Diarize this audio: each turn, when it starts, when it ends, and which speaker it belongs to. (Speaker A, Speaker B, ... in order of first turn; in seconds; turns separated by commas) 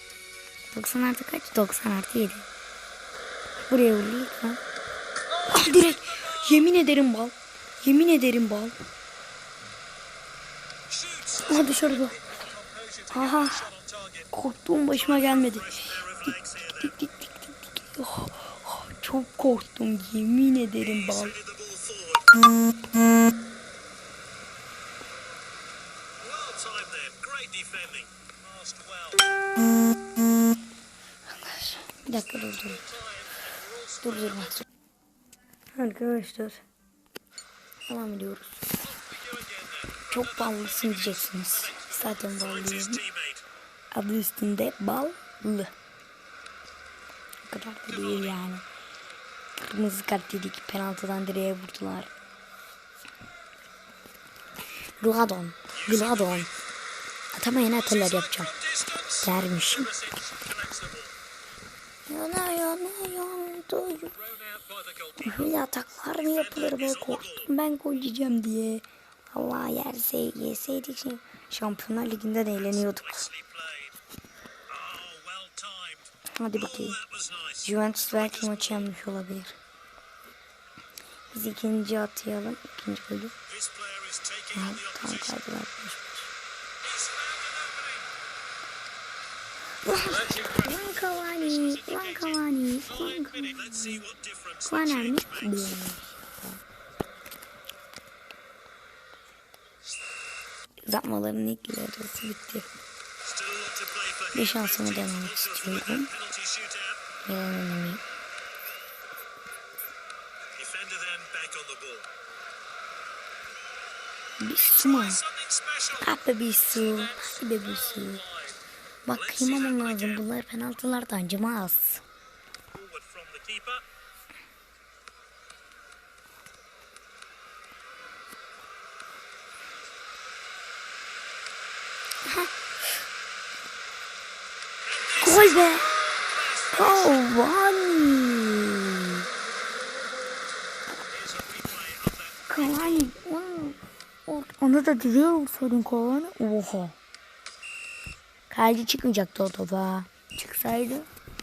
Speaker A: 0.7-2.5, Speaker A: 3.7-4.6, Speaker B: 5.3-6.7, Speaker A: 5.5-8.8, Speaker B: 10.9-14.3, Speaker A: 11.4-12.2, Speaker A: 13.1-13.7, Speaker A: 14.3-16.0, Speaker B: 15.0-16.9, Speaker A: 16.8-21.3, Speaker B: 20.8-22.3, Speaker B: 26.2-29.2, Speaker A: 31.3-32.9, Speaker B: 32.6-34.6, Speaker A: 34.0-34.6, Speaker A: 35.7-36.6, Speaker A: 37.9-38.8, Speaker B: 38.8-43.5, Speaker A: 40.1-43.0, Speaker A: 43.9-45.7, Speaker A: 47.4-48.6, Speaker B: 47.9-48.5, Speaker A: 49.6-52.1, Speaker A: 55.0-56.5, Speaker B: 55.7-56.5, Speaker A: 57.3-58.5, Speaker B: 57.7-61.1, Speaker A: 59.2-59.9, Speaker A: 62.1-64.1, Speaker B: 64.1-67.5, Speaker A: 65.2-73.3, Speaker B: 72.6-73.9, Speaker B: 74.7-78.9, Speaker A: 76.4-77.0, Speaker A: 77.6-79.6, Speaker A: 81.3-83.3, Speaker B: 83.5-85.4, Speaker A: 84.5-86.1, Speaker B: 86.8-88.1, Speaker A: 89.8-94.0, Speaker B: 90.1-95.7, Speaker A: 94.7-96.6, Speaker A: 100.8-102.7, Speaker B: 103.2-107.0, Speaker A: 104.3-106.1, Speaker A: 107.2-108.0, Speaker B: 110.5-112.1, Speaker A: 114.4-115.2, Speaker B: 114.6-118.6, Speaker A: 116.0-118.2, Speaker A: 119.0-122.0, Speaker B: 119.1-120.2, Speaker B: 122.7-123.8, Speaker A: 132.2-132.5, Speaker B: 134.8-137.2, Speaker A: 135.2-135.9, Speaker A: 136.7-139.2, Speaker B: 141.1-143.1, Speaker A: 142.5-147.0, Speaker A: 148.5-151.1